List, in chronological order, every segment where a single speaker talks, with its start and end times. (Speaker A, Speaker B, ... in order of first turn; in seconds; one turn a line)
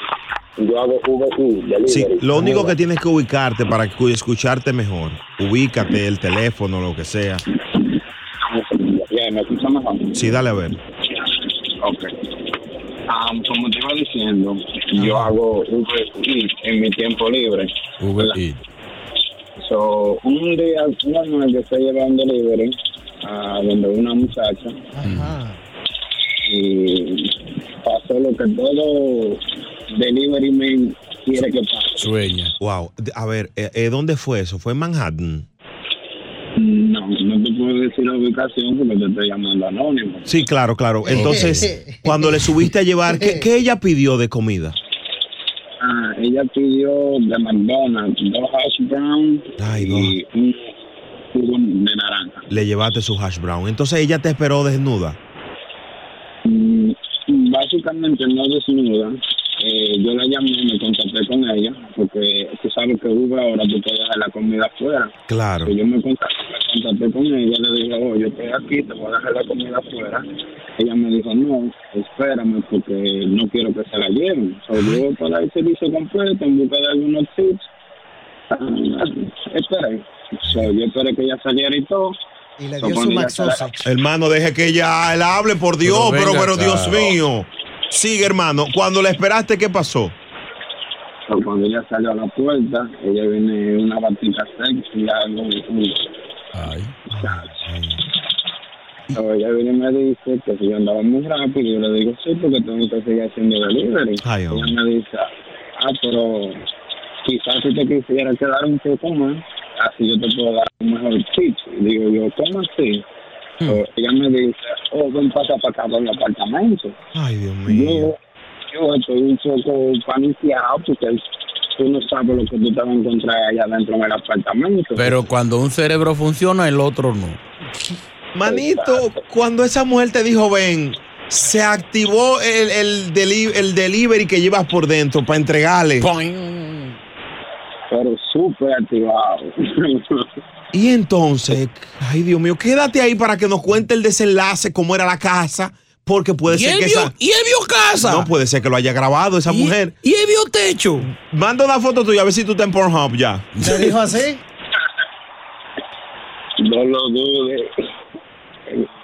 Speaker A: 0.6-2.8
Speaker B: 1.9-7.4
Speaker A: 8.4-10.2
Speaker B: 10.1-10.8
Speaker A: 11.8-12.1
Speaker A: 13.1-18.4
Speaker C: 18.0-18.6
Speaker A: 19.6-24.9
Speaker D: 24.9-25.6
Speaker C: 25.0-25.4
Speaker A: 26.4-29.4
Speaker A: 29.9-32.1
Speaker C: 32.0-32.5
Speaker B: 32.6-35.5
Speaker A: 36.6-40.3
Speaker B: 40.3-44.8
Speaker D: 41.1-42.4
Speaker C: 41.1-41.6
Speaker D: 43.1-43.5
Speaker A: 45.8-50.7
Speaker B: 49.6-50.1
Speaker A: 51.3-52.5
Speaker B: 52.5-55.2
Speaker A: 56.5-65.1
Speaker B: 65.3-65.7
Speaker A: 65.7-70.3
Speaker A: 70.8-77.7
Speaker B: 74.8-75.0
Speaker A: 78.5-82.2
Speaker B: 80.4-80.7
Speaker D: 82.6-83.9
Speaker A: 82.8-83.7
Speaker B: 83.8-90.2
Speaker C: 85.8-87.2
Speaker A: 91.3-96.1
Speaker C: 96.5-96.9
Speaker A: 97.1-97.5
Speaker B: 97.1-98.0
Speaker A: 99.1-106.6
Speaker B: 104.2-104.8
Speaker A: 107.2-113.0
Speaker A: 113.7-117.0
Speaker B: 117.1-118.1
Speaker A: 117.7-118.2
Speaker A: 118.7-121.2
Speaker A: 121.8-125.2
Speaker C: 125.0-127.4
Speaker B: 128.3-136.1
Speaker A: 128.4-129.1
Speaker C: 136.0-137.0
Speaker A: 137.9-140.2
Speaker B: 140.7-147.1
Speaker C: 146.5-148.3
Speaker B: 148.0-150.0
Speaker C: 149.5-151.1
Speaker B: 151.1-153.5
Speaker C: 153.6-154.0
Speaker D: 153.6-154.4
Speaker A: 156.6-157.7